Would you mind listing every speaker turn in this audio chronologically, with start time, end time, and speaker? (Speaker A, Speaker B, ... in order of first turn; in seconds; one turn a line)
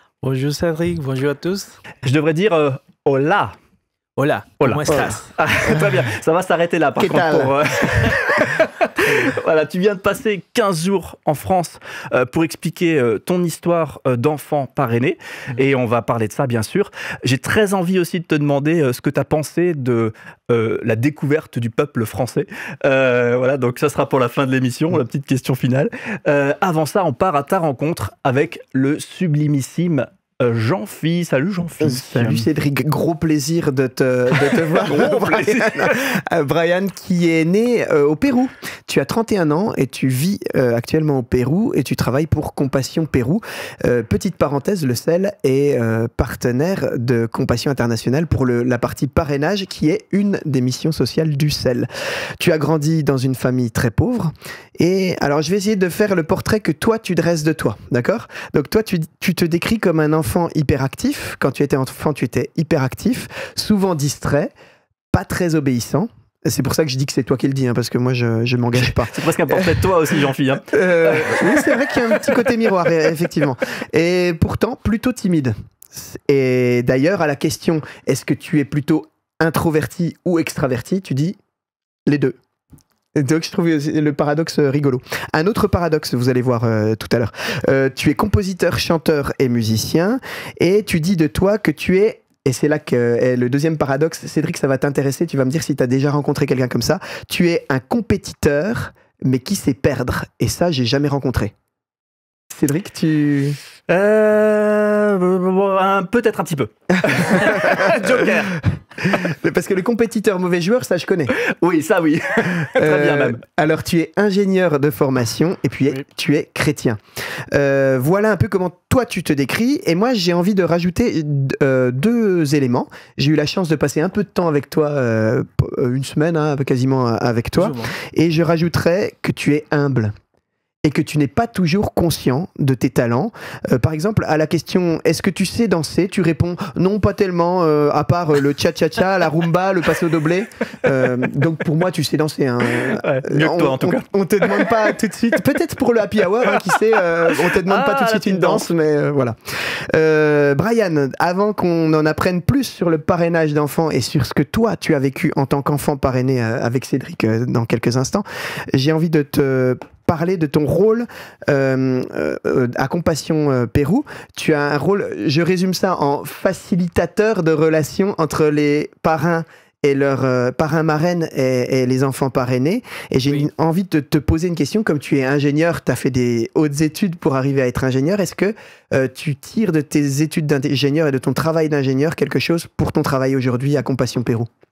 Speaker A: 0.2-1.8
Speaker B: 2.0-3.5
Speaker A: 4.2-5.3
Speaker B: 4.6-32.5
Speaker C: 4.9-5.1
Speaker C: 7.0-8.2
Speaker C: 31.8-51.9
Speaker B: 34.5-36.1
Speaker C: 52.4-64.5
Speaker C: 65.1-81.4
Speaker B: 68.7-71.8
Speaker C: 82.1-82.4
Speaker C: 83.1-101.5
Speaker C: 102.5-103.6
Speaker B: 103.9-108.6
Speaker C: 107.0-108.3
Speaker C: 109.0-111.3
Speaker B: 111.3-113.4
Speaker C: 112.6-117.0
Speaker C: 117.5-130.1
Speaker A: 127.6-127.9
Speaker C: 130.8-184.5
Speaker B: 142.7-144.8
Speaker B: 146.5-148.7